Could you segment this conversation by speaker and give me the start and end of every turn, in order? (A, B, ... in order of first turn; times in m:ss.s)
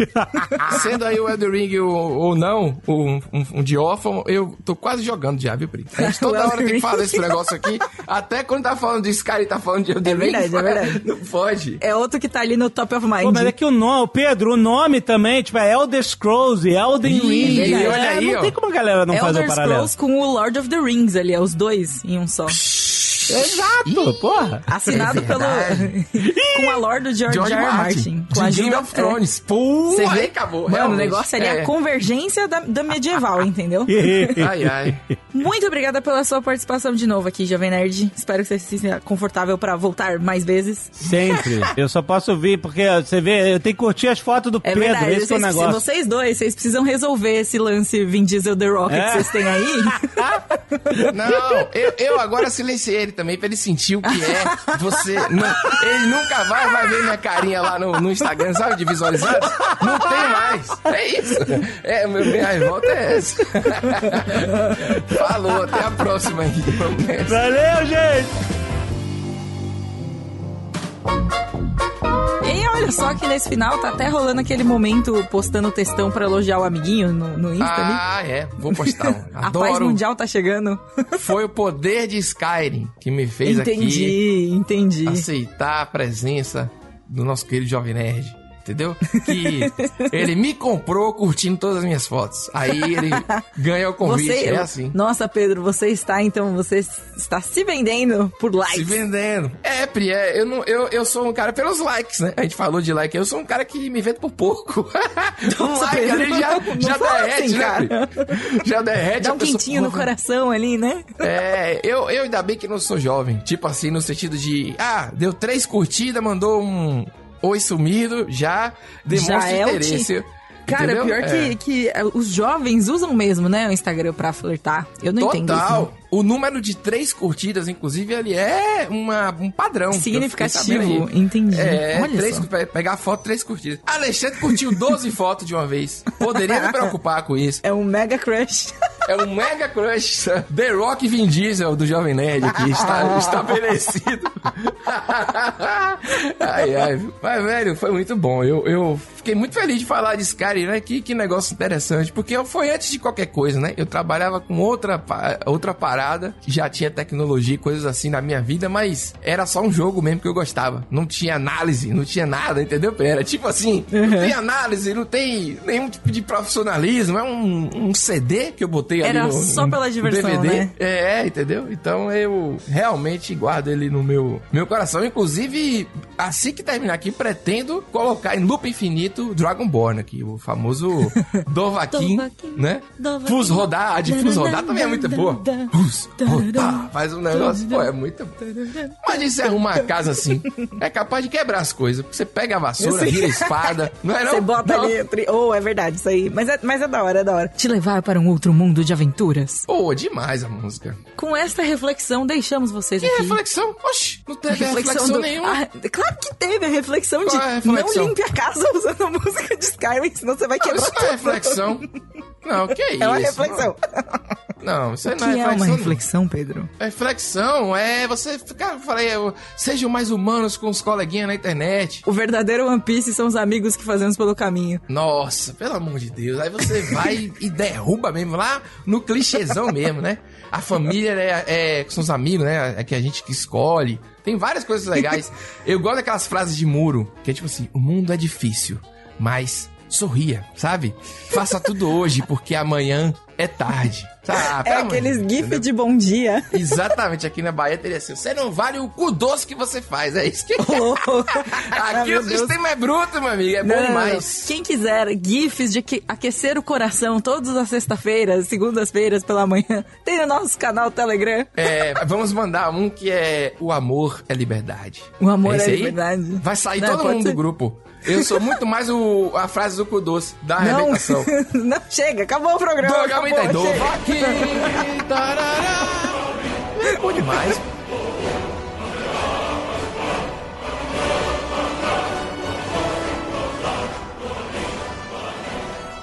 0:00.1-0:00.8 A
0:00.6-0:11.8 B
0:06.0-0:07.5 C
0:10.0-0:11.0 C
0:11.8-0:13.5 C
0:13.2-0:19.9 A
0:17.0-0:18.6 B
0:17.2-0:18.1 C
0:19.1-0:22.6 C
0:22.5-0:24.2 B
0:23.3-0:25.3 A
0:24.7-0:29.2 C
0:24.8-0:31.7 B
0:29.9-0:34.4 C
0:33.9-0:35.0 A
0:34.4-0:35.0 B
0:35.3-0:41.4 C
0:41.0-0:45.8 A
0:41.0-0:41.5 B
0:44.6-0:51.1 C
0:48.9-0:50.4 A
0:51.1-1:07.4 B
0:54.1-0:55.8 C
0:59.7-1:00.3 A
1:07.3-1:08.3 A
1:12.4-1:18.0 C
1:17.6-1:20.0 B
1:18.6-1:21.1 C
1:21.2-1:24.2 B
1:23.4-1:25.3 C
1:25.1-1:35.0 B
1:29.1-1:30.2 C
1:32.8-1:33.4 C
1:34.0-1:39.0 C
1:38.7-1:50.1 B
1:45.4-1:48.5 C
1:49.2-1:51.3 C
1:51.2-2:01.6 B
1:59.1-2:00.1 C
2:00.7-2:05.9 C
2:05.2-2:17.6 B
2:09.9-2:12.5 C
2:17.6-2:18.7 C
2:19.1-3:15.0 B
2:43.9-2:44.3 C
2:49.0-2:50.7 C
3:01.2-3:07.9 C
3:08.4-3:09.0 C
3:12.8-3:19.7 C
3:19.7-3:21.0 B
3:21.2-3:23.4 C
3:23.0-3:25.6 B
3:24.5-3:31.8 C
3:27.2-3:28.1 B
3:30.6-3:31.9 B
3:32.4-3:33.7 B
3:33.0-3:34.2 C
3:34.6-3:36.0 B
3:35.0-3:36.7 C
3:36.8-3:42.0 B
3:42.1-3:44.8 C
3:44.9-4:05.6 B
4:04.4-4:06.7 C
4:06.5-4:14.5 B
4:10.6-4:12.6 C
4:13.6-4:22.0 C
4:21.6-4:31.3 B
4:25.2-4:27.4 C
4:30.6-4:34.9 C
4:32.8-4:37.7 B